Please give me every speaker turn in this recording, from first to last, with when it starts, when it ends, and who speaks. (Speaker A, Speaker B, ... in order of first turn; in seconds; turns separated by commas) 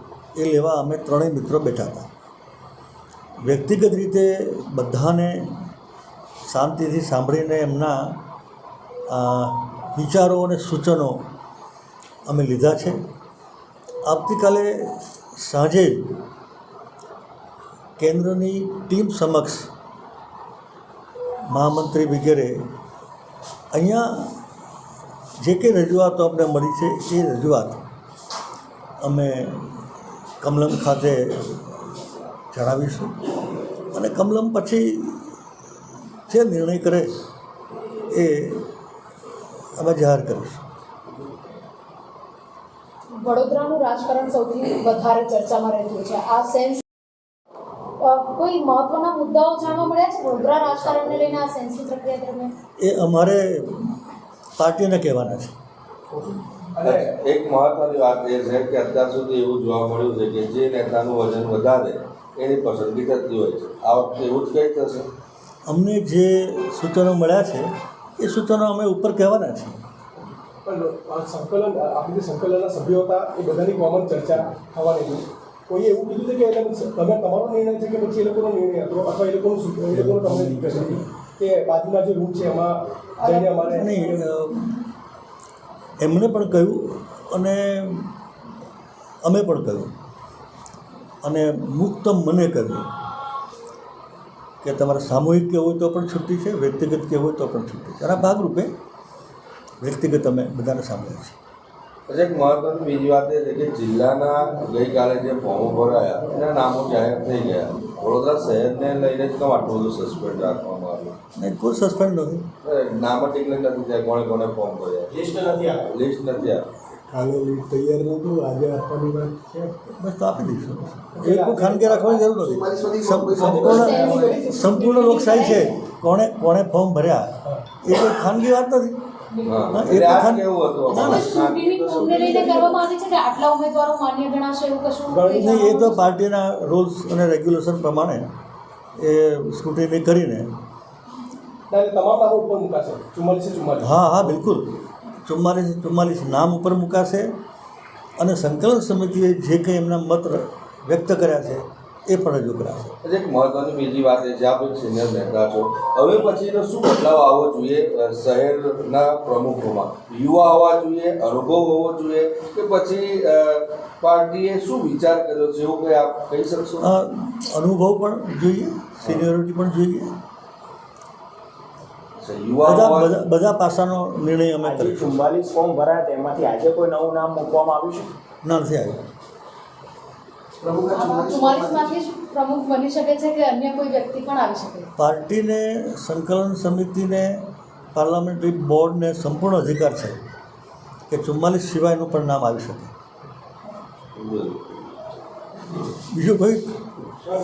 Speaker A: 0.3-2.1, Speaker A: 3.4-5.5, Speaker A: 6.5-8.2, Speaker A: 9.1-11.2, Speaker A: 12.3-13.0, Speaker A: 14.0-16.2, Speaker A: 18.0-19.7, Speaker A: 21.5-22.7, Speaker A: 23.7-24.4, Speaker A: 25.4-27.8, Speaker A: 29.0-29.8, Speaker A: 30.4-31.8, Speaker A: 32.5-33.2, Speaker A: 33.9-35.4, Speaker A: 36.3-37.1, Speaker A: 38.0-38.7, Speaker A: 39.8-40.7, Speaker B: 43.2-46.8, Speaker B: 48.0-52.5, Speaker A: 52.8-54.0, Speaker A: 54.6-55.5, Speaker C: 56.8-57.1, Speaker D: 56.8-65.0, Speaker A: 65.7-69.8, Speaker C: 70.6-84.2, Speaker A: 79.9-81.0, Speaker B: 83.2-84.2, Speaker A: 83.7-84.8, Speaker A: 86.0-88.1, Speaker A: 89.2-89.9, Speaker A: 91.2-92.8, Speaker A: 94.6-98.7, Speaker A: 99.8-101.3, Speaker D: 102.1-111.2, Speaker A: 111.3-112.5, Speaker D: 112.6-116.7, Speaker E: 118.7-119.3, Speaker A: 119.6-129.0, Speaker C: 121.2-122.1, Speaker E: 122.5-124.3, Speaker C: 123.3-125.2, Speaker B: 123.7-125.7, Speaker B: 129.3-129.7, Speaker D: 129.4-132.3, Speaker A: 129.7-131.4, Speaker B: 130.9-136.0, Speaker C: 132.3-132.7, Speaker C: 135.1-135.4, Speaker A: 135.4-138.3, Speaker A: 139.0-140.5, Speaker C: 141.7-144.4, Speaker A: 143.8-147.3, Speaker A: 148.2-152.9, Speaker D: 153.0-166.9, Speaker A: 166.8-170.1, Speaker D: 169.0-169.2, Speaker D: 172.2-173.1, Speaker A: 172.6-175.2, Speaker F: 174.6-178.1, Speaker A: 178.4-179.0, Speaker E: 180.6-181.9, Speaker B: 180.9-184.9, Speaker A: 185.0-190.2, Speaker A: 191.1-192.9, Speaker D: 194.2-194.7, Speaker A: 196.1-196.8